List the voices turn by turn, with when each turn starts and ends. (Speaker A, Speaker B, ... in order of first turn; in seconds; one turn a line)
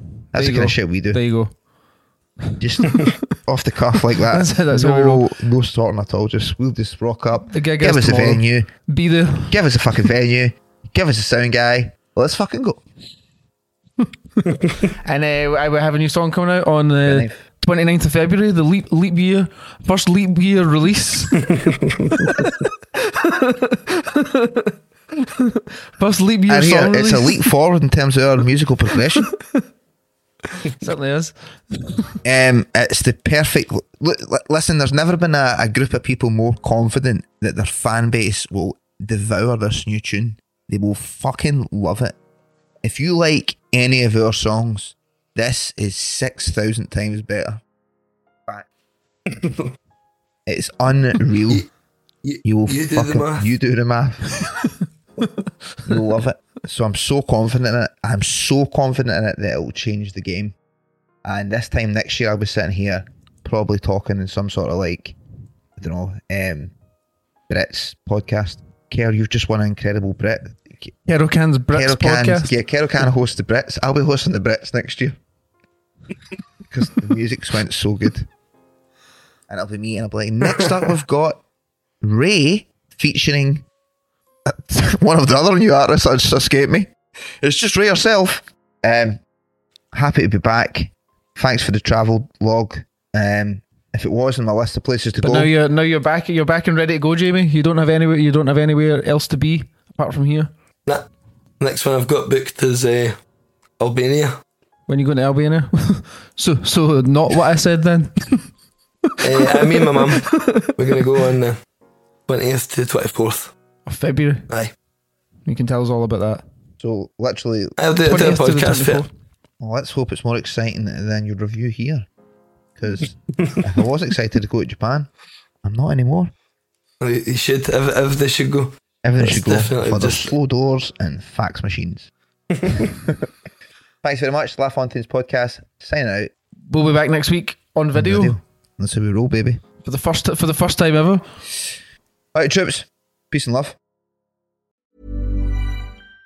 Speaker A: 0.3-1.2
Speaker B: 0.3-1.5
Speaker B: 2.5-3.1
Speaker A: 2.6-8.7
Speaker B: 4.3-5.2
Speaker B: 7.5-9.8
Speaker A: 9.5-12.8
Speaker B: 15.0-21.5
Speaker A: 17.0-17.4
Speaker B: 22.2-22.5
Speaker B: 23.0-24.7
Speaker B: 25.2-27.4
Speaker A: 26.5-29.3
Speaker B: 30.6-32.1
Speaker A: 32.2-42.1
Speaker A: 42.8-47.6
Speaker C: 49.3-49.6
Speaker A: 50.5-51.6
Speaker C: 52.2-53.5
Speaker A: 52.4-54.3
Speaker A: 55.9-60.5
Speaker A: 61.2-65.2
Speaker A: 65.8-66.7
Speaker A: 67.5-70.9
Speaker B: 71.1-72.5
Speaker A: 71.7-75.2
Speaker A: 76.7-78.3
Speaker A: 79.5-81.4
Speaker A: 82.0-83.6
Speaker A: 84.5-86.9
Speaker A: 87.4-89.2
Speaker A: 89.9-95.5
Speaker B: 95.2-100.5
Speaker C: 101.6-103.2
Speaker C: 103.8-104.4
Speaker B: 104.9-108.5
Speaker C: 109.2-111.6
Speaker B: 109.6-110.7
Speaker C: 112.3-113.5
Speaker B: 113.8-114.5
Speaker B: 115.5-116.4
Speaker A: 116.8-117.8
Speaker C: 117.8-119.0
Speaker B: 118.0-119.1
Speaker A: 119.6-122.1
Speaker A: 122.8-125.1
Speaker A: 125.6-126.3
Speaker C: 127.0-130.3
Speaker A: 129.0-132.1
Speaker A: 132.7-133.3
Speaker A: 134.0-136.3
Speaker B: 136.7-138.4
Speaker A: 137.9-139.6
Speaker B: 139.8-141.2
Speaker A: 142.3-143.8